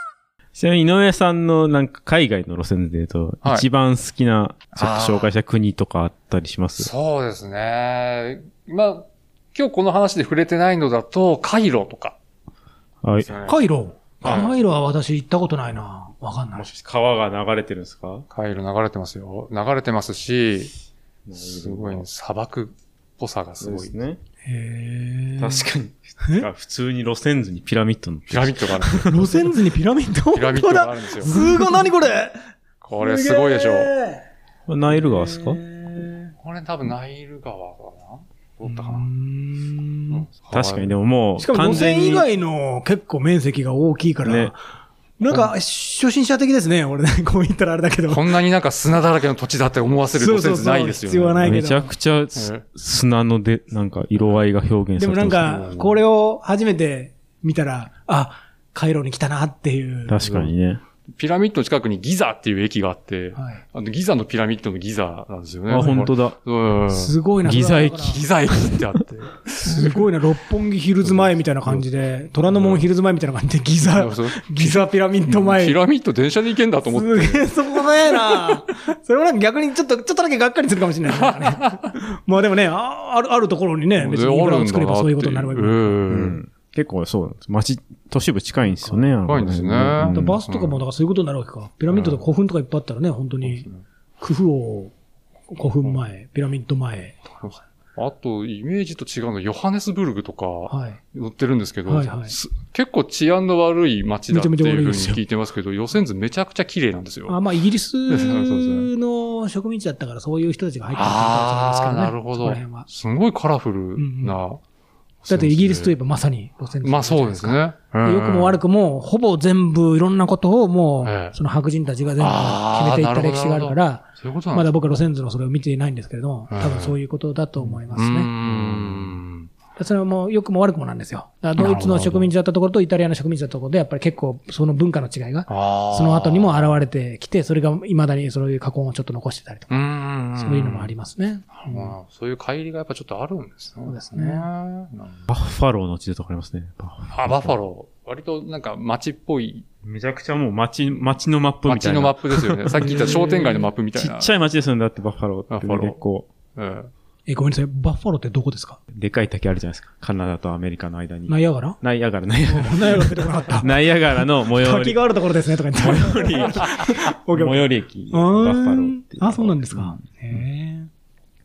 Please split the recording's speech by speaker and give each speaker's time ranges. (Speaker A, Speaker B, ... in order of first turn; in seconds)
Speaker A: 0.5-6.9, 13.0-13.3, 16.5-18.2, 21.2-22.1, 23.6-24.2, 25.4-29.3, 34.6-35.6, 40.5-42.3, 44.2-44.5, 51.4-55.7, 60.1-60.8, 65.7-66.3, 67.4-68.9, 86.1-90.4, 128.4-129.2, 145.3-147.5, 149.8-156.3, 158.9-165.0, 165.7-170.4
Speaker B: 4.7-5.3, 6.8-12.2, 13.2-13.6, 14.2-14.5, 18.3-20.7, 21.4-23.9, 28.3-29.3, 30.3-31.3, 32.8-33.9, 36.4-39.1, 40.1-40.9, 48.1-51.5, 52.3-52.6, 55.4-56.0, 60.2-60.5, 61.1-67.1, 67.8-70.0, 71.0-71.8, 72.5-72.8, 73.8-78.5, 81.1-81.8, 84.0-86.4, 89.2-90.8, 91.9-92.2, 93.4-93.8, 97.4-107.4, 108.1-108.9, 110.9-114.6, 115.2-116.0, 116.8-118.6, 121.0-121.3, 122.2-125.0, 126.5-127.0, 127.9-129.5, 131.6-132.3, 135.5-136.7, 139.7-140.9, 141.5-145.2, 147.1-149.7, 151.7-154.3, 155.5-156.0, 156.6-156.9
Speaker C: 13.4-16.6, 24.4-25.7, 26.2-26.5, 29.1-32.4, 33.0-34.2, 34.9-36.3, 38.6-40.2, 41.4-44.6, 45.2-48.3, 50.1-51.9, 55.0-60.2, 63.3-63.6, 65.8-66.0, 66.9-68.2, 69.6-75.8, 76.9-86.0, 90.0-93.7, 94.2-94.9, 95.5-97.3, 100.7-101.0, 101.9-102.3, 104.3-105.2, 107.3-112.9, 114.0-114.4, 115.3-128.3, 129.8-141.9, 143.9-144.4, 152.8-153.7, 157.3-158.8, 161.3-161.8, 162.4-163.8, 164.4-170.9